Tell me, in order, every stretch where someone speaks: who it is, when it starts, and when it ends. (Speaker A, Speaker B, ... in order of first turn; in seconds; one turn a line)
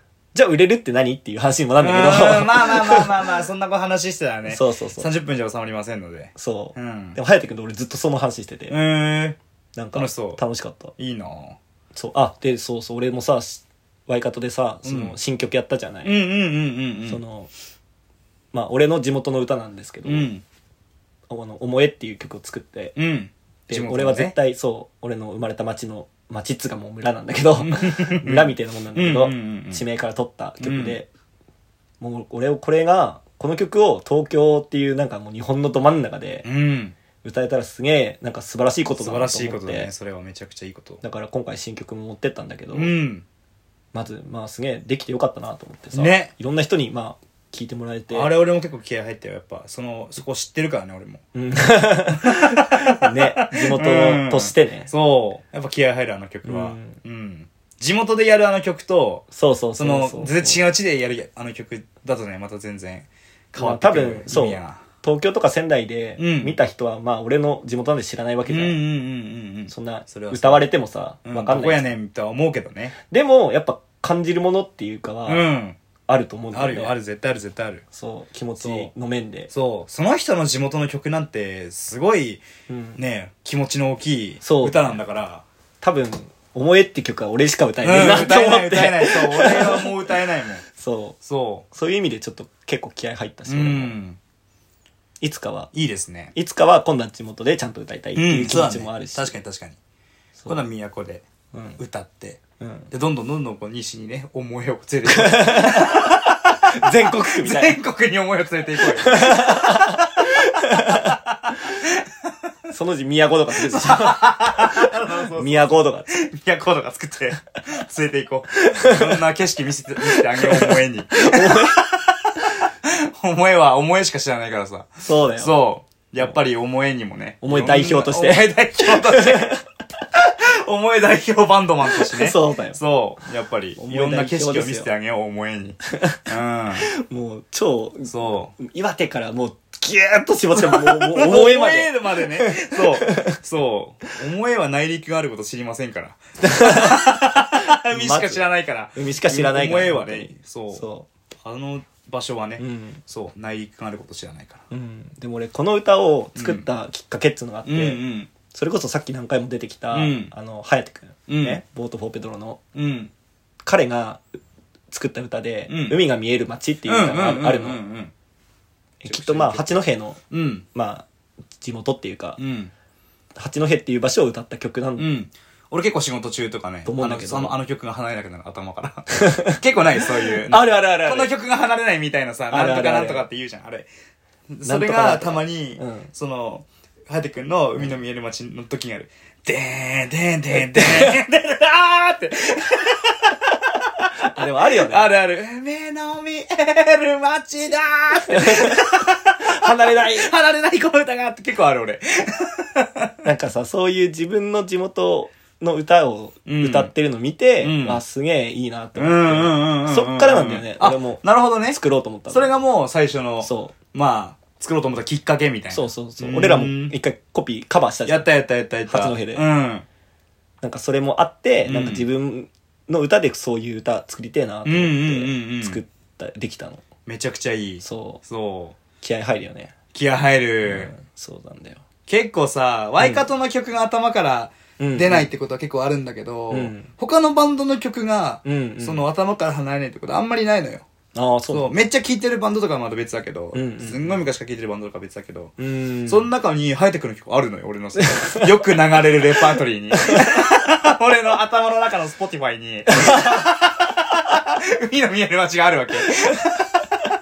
Speaker A: 0.3-3.3
Speaker B: 1.8-7.2
Speaker A: 4.5-5.1
Speaker A: 6.4-8.8
Speaker B: 8.7-9.4
Speaker A: 9.8-10.9
Speaker B: 9.9-10.4
Speaker B: 11.0-11.6
Speaker A: 11.9-16.2
Speaker B: 14.8-15.2
Speaker B: 16.0-17.2
Speaker A: 17.1-17.5
Speaker A: 18.5-20.3
Speaker B: 20.1-20.4
Speaker A: 21.3-23.0
Speaker B: 23.0-24.3
Speaker A: 23.7-31.1
Speaker B: 27.6-29.8
Speaker B: 30.6-31.0
Speaker A: 32.0-36.5
Speaker B: 36.4-37.0
Speaker A: 37.2-39.9
Speaker B: 39.0-41.0
Speaker A: 41.0-42.9
Speaker B: 42.7-43.2
Speaker A: 43.9-48.3
Speaker B: 46.0-46.3
Speaker B: 48.1-51.2
Speaker A: 51.4-54.9
Speaker B: 52.2-64.9
Speaker A: 56.5-57.0
Speaker A: 59.3-60.7
Speaker A: 63.6-68.8
Speaker B: 66.2-66.6
Speaker B: 68.5-70.7
Speaker A: 69.7-72.0
Speaker B: 71.3-73.0
Speaker A: 73.1-75.5
Speaker B: 75.3-75.8
Speaker A: 76.1-76.9
Speaker B: 76.5-77.8
Speaker A: 77.9-79.5
Speaker B: 78.6-78.9
Speaker B: 79.5-82.4
Speaker A: 82.7-83.0
Speaker B: 83.0-85.4
Speaker A: 84.4-85.0
Speaker A: 85.8-89.9
Speaker B: 87.8-90.7
Speaker A: 90.7-91.2
Speaker B: 91.2-91.7
Speaker A: 91.7-94.0
Speaker B: 93.5-94.2
Speaker A: 95.2-95.7
Speaker B: 95.7-96.3
Speaker A: 96.3-99.3
Speaker B: 98.2-99.8
Speaker B: 100.5-101.2
Speaker A: 101.5-101.8
Speaker B: 101.8-112.3
Speaker A: 102.6-102.9
Speaker A: 105.1-107.8
Speaker A: 109.0-111.2
Speaker A: 112.7-116.1
Speaker B: 113.6-129.6
Speaker A: 118.6-119.2
Speaker A: 120.0-121.8
Speaker A: 125.0-125.6
Speaker A: 127.4-129.6
Speaker B: 130.2-136.9
Speaker A: 131.9-132.8
Speaker A: 133.8-134.9
Speaker A: 135.9-136.3
Speaker A: 136.8-143.4
Speaker B: 138.1-138.5
Speaker B: 140.6-150.8
Speaker A: 146.4-148.4
Speaker A: 148.9-151.1
Speaker B: 151.4-154.6
Speaker A: 152.6-153.0
Speaker A: 154.7-162.6
Speaker B: 156.4-156.7
Speaker B: 157.7-158.3
Speaker B: 159.9-160.3
Speaker B: 161.3-161.6
Speaker B: 162.8-163.1
Speaker A: 163.6-164.4
Speaker A: 164.9-167.8
Speaker B: 165.7-166.0
Speaker B: 166.8-168.1
Speaker A: 169.0-170.2
Speaker B: 169.1-169.8
Speaker B: 170.3-170.7
Speaker A: 170.7-171.1
Speaker A: 171.6-172.4
Speaker B: 172.4-172.7
Speaker A: 173.4-175.1
Speaker B: 175.0-183.9
Speaker A: 176.9-177.6
Speaker A: 179.1-179.6
Speaker A: 180.2-181.3
Speaker A: 182.5-183.2
Speaker B: 184.5-203.1
Speaker A: 184.7-186.1
Speaker A: 190.5-191.2
Speaker A: 194.2-195.1
Speaker A: 198.3-198.9
Speaker A: 199.4-200.3
Speaker A: 203.2-212.5
Speaker B: 206.5-206.9
Speaker B: 207.6-208.0
Speaker B: 209.0-211.8
Speaker B: 212.3-216.9
Speaker A: 213.4-213.8
Speaker A: 215.7-218.3
Speaker B: 218.1-219.9
Speaker A: 218.9-219.4
Speaker A: 220.6-226.8
Speaker B: 221.7-222.1
Speaker B: 224.7-225.8
Speaker B: 227.1-228.8
Speaker A: 227.8-228.2
Speaker A: 229.0-229.7
Speaker B: 229.9-230.9
Speaker A: 230.6-231.8
Speaker B: 232.1-240.9
Speaker A: 234.8-235.3
Speaker A: 236.5-236.9
Speaker A: 238.4-239.0
Speaker A: 241.1-241.8
Speaker B: 241.5-245.5
Speaker A: 243.5-244.2
Speaker A: 245.6-246.3
Speaker B: 246.1-256.9
Speaker A: 248.0-248.5
Speaker A: 250.0-250.4
Speaker A: 252.9-253.4